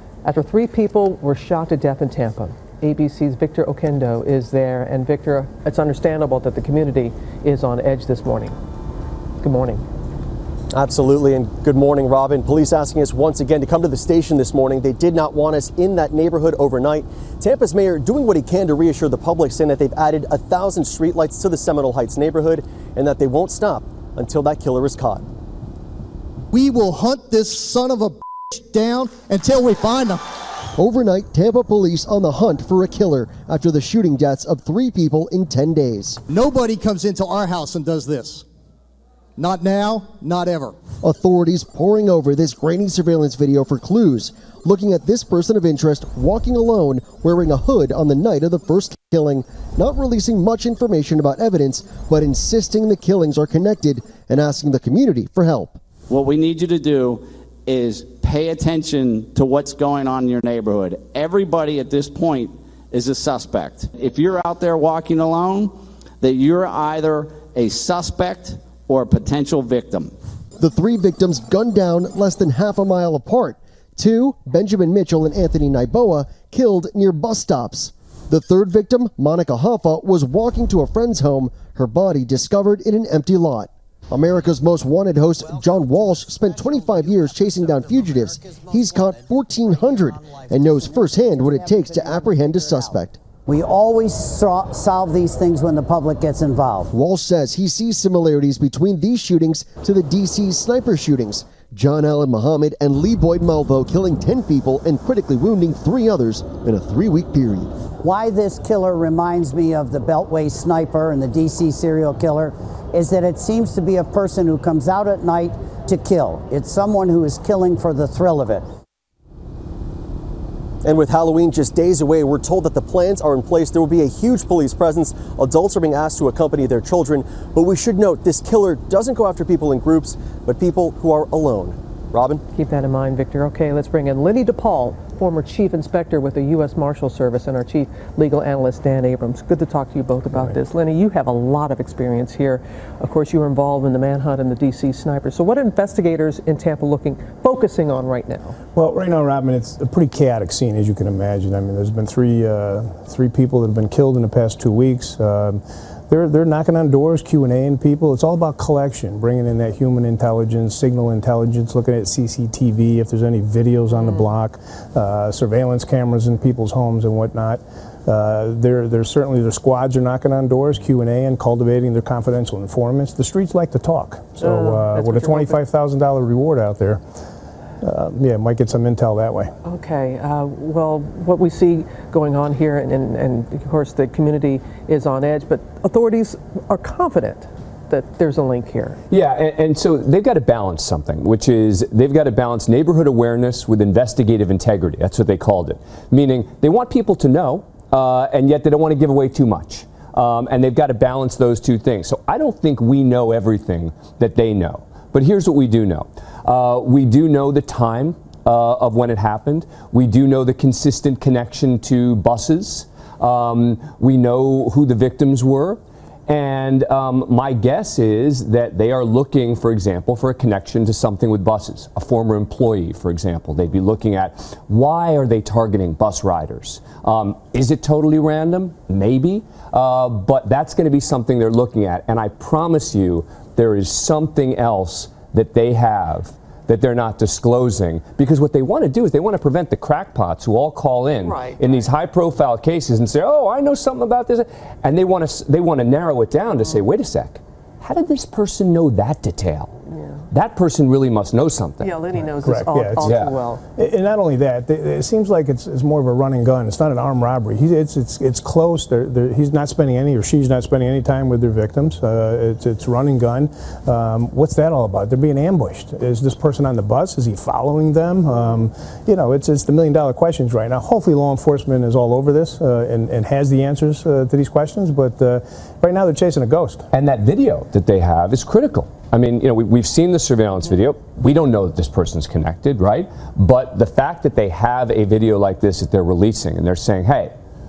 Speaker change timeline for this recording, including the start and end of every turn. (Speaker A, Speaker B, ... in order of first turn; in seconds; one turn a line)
Speaker A: 0.2-8.6
Speaker A: 9.4-9.8
Speaker B: 10.7-25.3
Speaker C: 26.5-30.2
Speaker D: 30.8-36.2
Speaker C: 36.3-38.4
Speaker C: 39.4-40.7
Speaker D: 41.0-55.8
Speaker E: 56.1-70.1
Speaker D: 70.6-93.2
Speaker F: 90.8-96.9
Speaker D: 96.9-107.7
Speaker F: 108.0-118.7
Speaker B: 120.8-132.4
Speaker A: 132.5-148.6
Speaker G: 148.8-177.0
Speaker A: 174.4-175.6
Speaker G: 177.8-179.5
Speaker A: 179.7-189.0
Speaker H: 189.1-249.8
Speaker A: 241.2-241.9
Speaker H: 250.3-251.9
Speaker A: 251.8-253.6
Speaker G: 252.4-253.1
Speaker H: 253.0-253.3
Speaker G: 253.8-276.9
Speaker H: 276.9-287.3